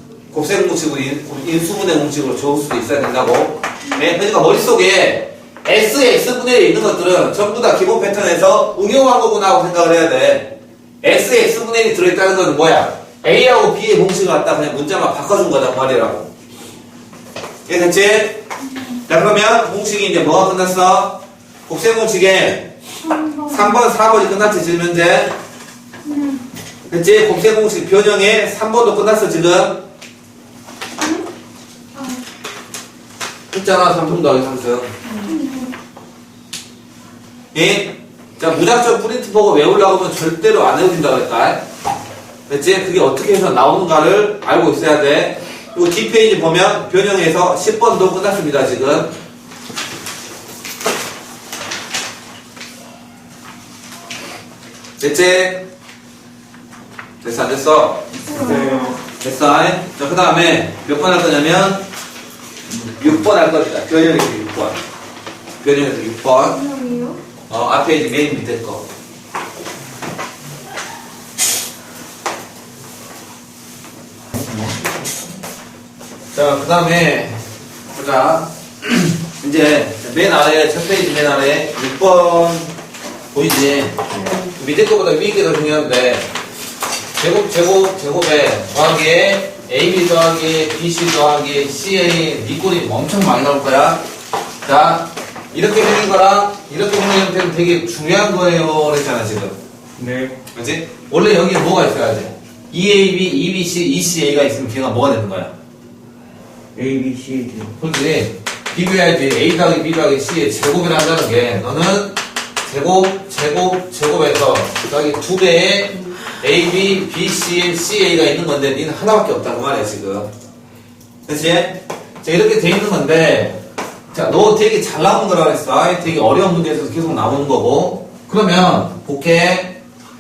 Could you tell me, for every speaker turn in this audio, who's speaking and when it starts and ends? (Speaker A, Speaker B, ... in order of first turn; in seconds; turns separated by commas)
Speaker A: 0.3-16.3, Speaker A: 17.7-18.4, Speaker A: 19.1-22.7, Speaker B: 23.0-23.8, Speaker A: 23.5-25.4, Speaker B: 26.1-26.4, Speaker A: 26.9-29.8, Speaker A: 33.5-34.9, Speaker B: 35.2-35.7, Speaker A: 37.5-41.6, Speaker A: 42.5-49.1, Speaker A: 55.0-55.6, Speaker A: 57.2-58.0, Speaker B: 58.3-59.0, Speaker C: 58.3-59.0, Speaker A: 59.2-61.8, Speaker C: 62.7-63.2, Speaker A: 63.0-64.8, Speaker A: 65.6-66.6, Speaker B: 66.6-67.1, Speaker A: 67.5-68.9, Speaker C: 74.3-74.9, Speaker A: 76.3-77.4, Speaker A: 77.9-82.8, Speaker A: 83.3-86.3, Speaker A: 87.2-94.0, Speaker A: 94.6-99.6, Speaker C: 100.0-100.4, Speaker A: 100.5-105.5, Speaker C: 106.8-107.8, Speaker A: 107.8-120.3, Speaker A: 121.3-123.6, Speaker A: 124.1-129.8